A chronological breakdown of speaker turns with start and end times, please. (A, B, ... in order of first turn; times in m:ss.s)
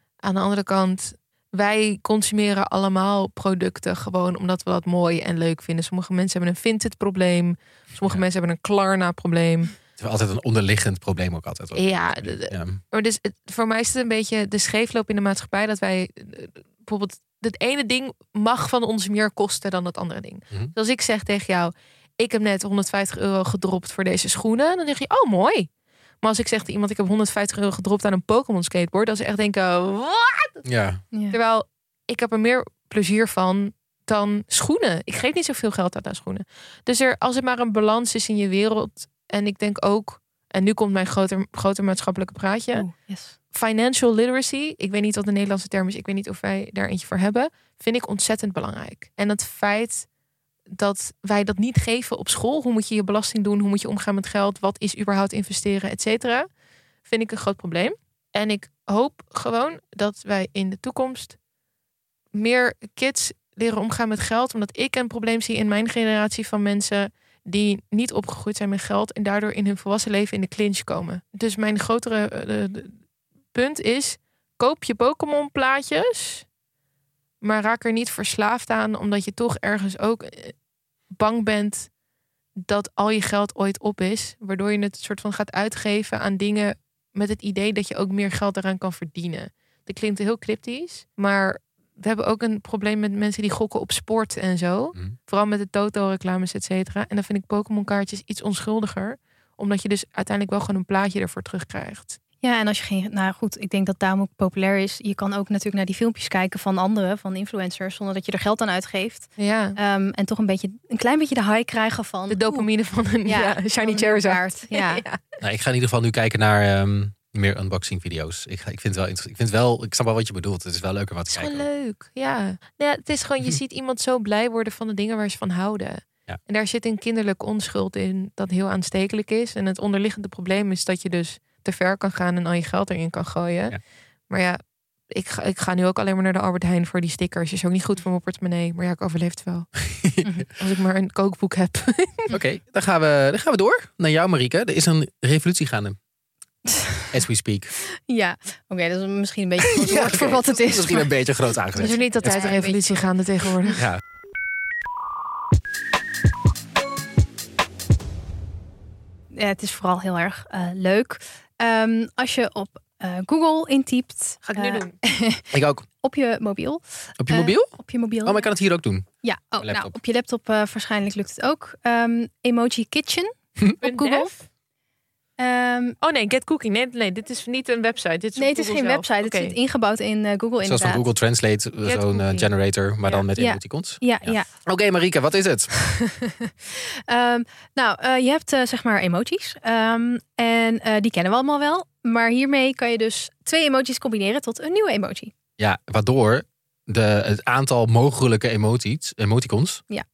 0:00.2-0:09.7 A
0:10.0-0:12.8 B
0:11.7-0:25.7 A
0:26.2-0:30.6 A
0:30.6-0:31.0 B
0:31.3-0:42.9 A
0:42.8-0:43.4 C
0:43.5-0:50.1 A
0:50.7-0:56.5 A
0:57.0-1:01.4 A
1:02.3-1:12.9 A
1:13.5-1:16.4 A
1:17.4-1:20.5 A
1:21.1-1:21.9 A
1:22.6-1:42.2 A
1:42.4-1:52.7 C
1:49.4-1:49.8 A
1:52.3-1:55.2 A
1:53.3-1:55.0 C
1:55.4-2:01.7 B
2:01.3-2:13.8 A
2:14.3-2:14.6 A
2:15.1-2:19.7 A
2:19.9-2:20.4 B
2:20.6-2:22.3 A
2:22.3-2:26.0 B
2:27.1-2:27.7 B
2:28.1-2:31.1 C
2:29.6-2:32.5 B
2:31.7-2:33.0 C
2:31.8-2:33.8 A
2:33.7-2:34.0 B
2:39.3-2:45.4 C
2:44.5-2:45.0 A
2:45.5-2:45.8 B
2:46.0-2:48.5 C
2:47.2-2:47.7 B
2:48.2-2:49.1 B
2:49.2-2:54.3 C
2:49.6-2:49.9 B
2:53.8-2:54.4 A
2:55.4-2:56.0 C
2:56.0-2:59.6 A
2:58.4-3:01.0 C
3:00.6-3:05.7 B
3:01.8-3:02.5 A
3:03.3-3:04.5 C
3:07.1-3:15.3 C
3:15.6-3:19.8 B